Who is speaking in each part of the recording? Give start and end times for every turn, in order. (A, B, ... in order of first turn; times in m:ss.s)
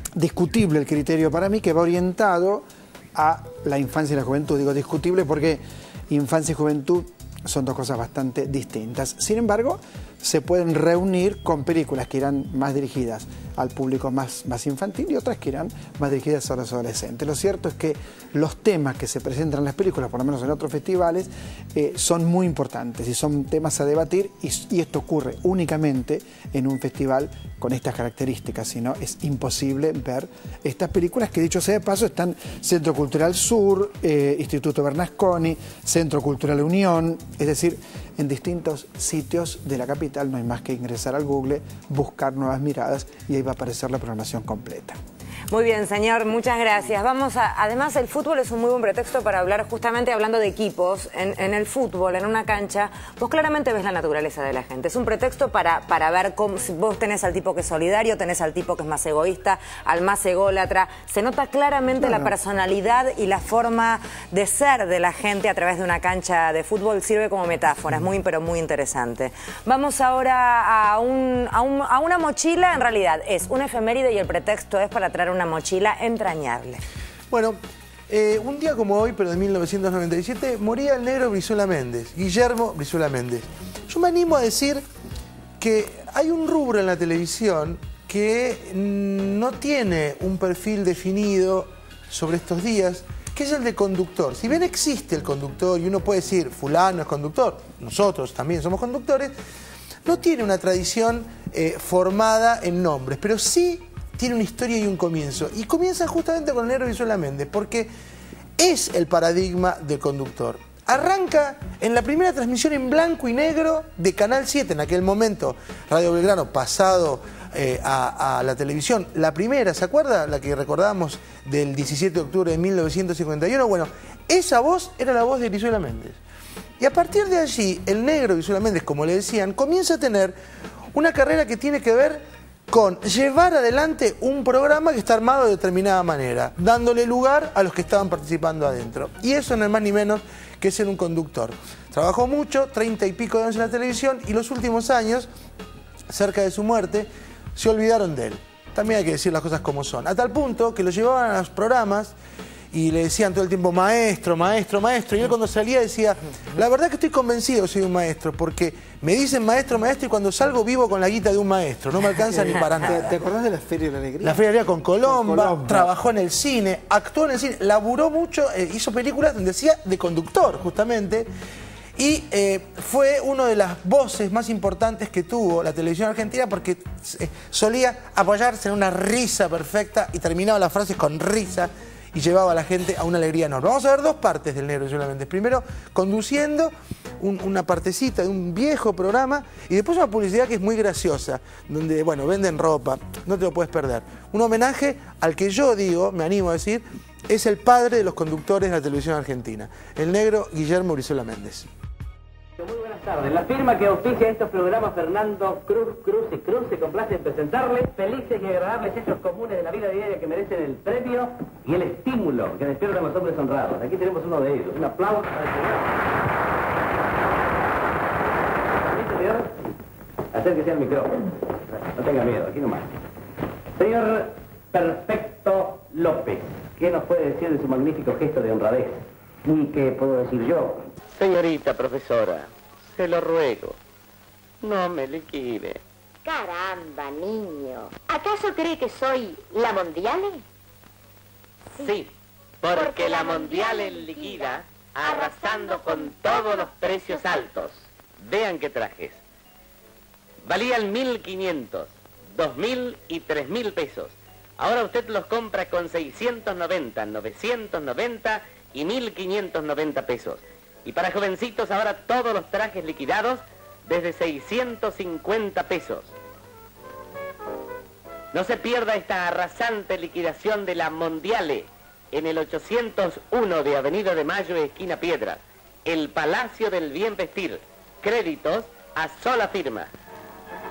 0:00.2-0:45.0 A
0:45.5-1:16.8 B
1:02.0-1:02.3 A
1:17.3-1:17.6 C
1:18.1-1:24.8 C
1:25.6-1:39.3 C
1:40.0-1:47.9 C
1:48.6-2:06.2 C
2:06.8-2:10.4 C
2:10.9-2:25.3 C
2:26.1-2:32.1 C
2:32.7-2:43.1 C
2:42.4-2:44.4 A
2:44.2-2:51.3 C
2:45.0-2:45.9 A
2:52.0-3:21.7 C
3:22.6-3:36.0 D
3:38.8-3:39.6 D
3:40.3-3:43.0 D
3:43.8-3:50.8 D
3:51.1-3:53.8 E
3:54.6-3:55.8 E
3:56.2-4:00.4 F
4:01.8-4:09.2 E
4:02.7-4:07.4 F
4:10.4-4:26.1 E
4:28.3-4:39.9 E